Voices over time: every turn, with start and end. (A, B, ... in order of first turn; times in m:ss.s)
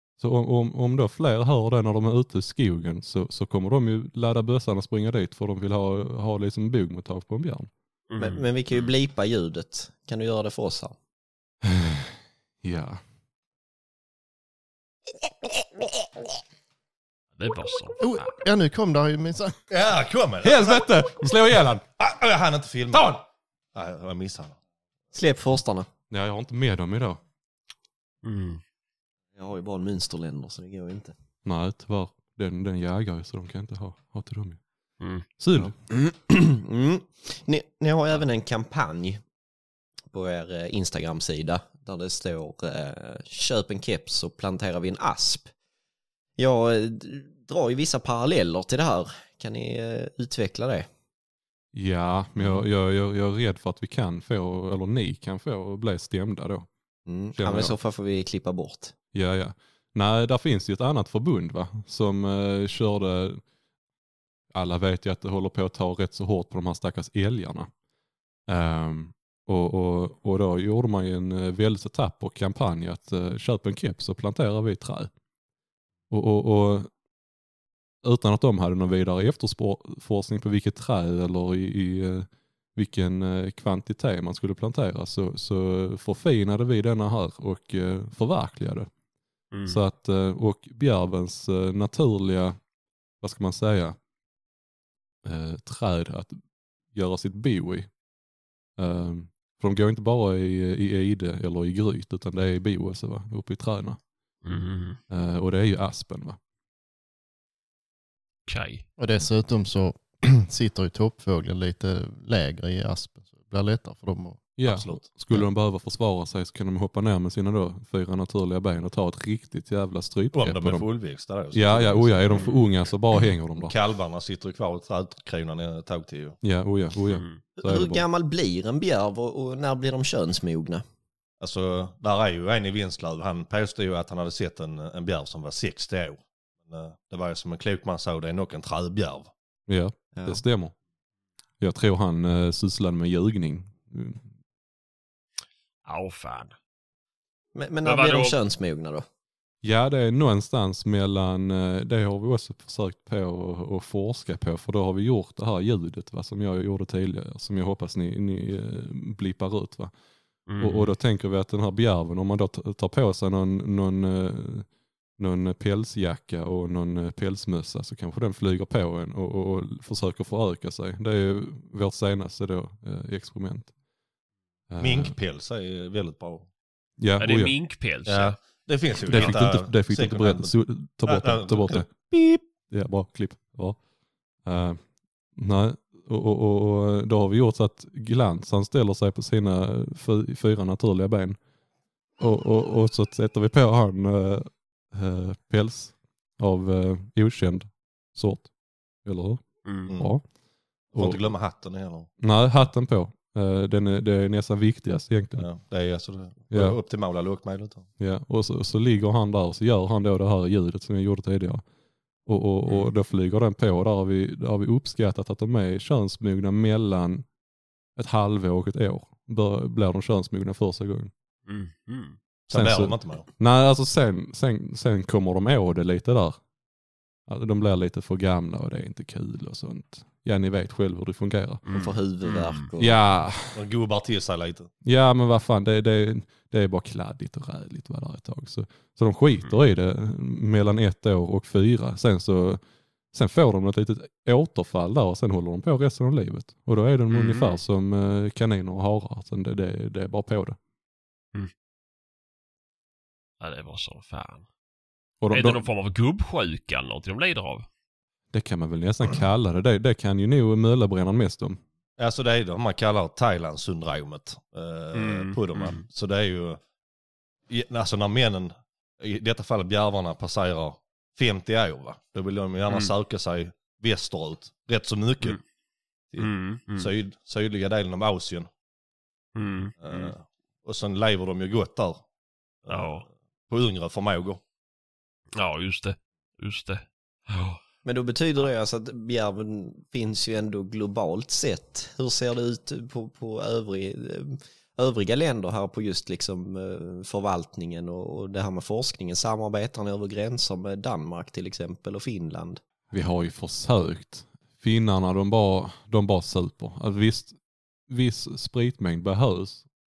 0:00.2-0:07.7 A
0:08.1-0:08.9 B
0:08.2-0:11.0 C
0:11.6-0:13.0 A
0:17.4-0:18.3 B
0:18.0-0:19.6 D
0:19.7-0:20.8 E
0:20.4-0:21.8 A
0:21.9-0:24.6 E
0:25.1-0:25.9 C
0:26.1-0:27.2 A
0:28.2-0:28.6 B
0:29.4-0:31.1 C
0:31.4-0:34.6 A
0:35.0-0:35.2 B
0:35.4-0:35.7 A
0:35.9-0:39.2 C
0:40.1-0:45.5 C
0:46.4-0:50.9 C
0:51.7-0:56.7 A
0:57.0-0:58.9 C
0:57.4-0:57.8 A
0:59.1-1:03.4 A
1:04.5-1:07.7 A
1:08.5-1:15.1 A
1:16.1-1:16.9 A
1:18.0-1:28.9 A
1:29.5-1:29.8 B
1:29.6-1:32.6 A
1:33.2-1:34.0 A
1:35.2-1:36.4 A
1:36.9-1:37.9 A
1:38.8-1:44.0 A
1:44.4-1:45.0 B
1:45.1-1:46.4 A
1:48.5-1:48.8 B
1:49.0-1:54.6 D
1:54.6-2:00.8 A
1:54.6-1:55.4 E
2:00.3-2:02.5 E
2:01.5-2:03.7 A
2:02.4-2:02.6 B
2:03.6-2:06.4 E
2:06.4-2:08.0 A
2:07.1-2:07.4 B
2:07.6-2:10.8 C
2:11.4-2:19.3 E
2:19.7-2:20.7 A
2:20.1-2:20.4 C
2:21.6-2:24.2 A
2:25.8-2:26.5 B
2:27.5-2:29.0 C
2:27.8-2:28.3 B
2:29.6-2:39.9 A
2:40.5-2:40.9 B
2:40.6-2:53.7 A
2:54.7-2:55.1 A
2:54.8-2:56.5 E
2:57.0-2:57.5 A
2:57.2-2:58.4 B
2:58.0-3:00.5 E
2:59.0-2:59.4 B
2:59.0-3:01.9 A
3:01.0-3:02.4 E
3:02.7-3:03.8 A
3:04.4-3:04.8 A
3:05.3-3:11.4 A
3:12.2-3:18.5 A
3:19.0-3:20.2 A
3:19.6-3:19.9 B
3:20.9-3:21.3 A
3:20.9-3:22.1 E
3:22.2-3:25.5 A
3:25.4-3:27.9 E
3:26.5-3:26.8 A
3:28.0-3:31.6 A
3:32.2-3:37.2 A
3:38.0-3:41.1 A
3:41.5-3:42.2 B
3:42.5-3:43.2 E
3:42.5-3:46.4 A
3:47.3-3:51.6 A
3:51.6-3:52.6 B
3:51.7-3:53.0 C
3:52.8-3:53.6 A
3:53.5-3:54.7 E
3:54.8-4:02.6 A
4:03.1-4:10.6 A
4:07.1-4:07.6 B
4:13.4-4:14.4 B
4:15.2-4:15.6 A
4:15.3-4:17.6 B
4:18.3-4:21.6 A
4:22.0-4:26.6 E
4:24.9-4:25.8 B
4:27.5-4:35.4 E
4:32.7-4:32.9 B
4:36.1-4:38.5 E
4:36.2-4:36.9 B
4:39.3-4:40.1 B
4:39.8-4:42.0 E
4:42.6-4:44.4 E
4:42.7-4:43.0 B
4:45.4-4:47.6 B
4:47.8-5:02.6 C
5:02.9-5:07.4 A
5:07.9-5:09.6 A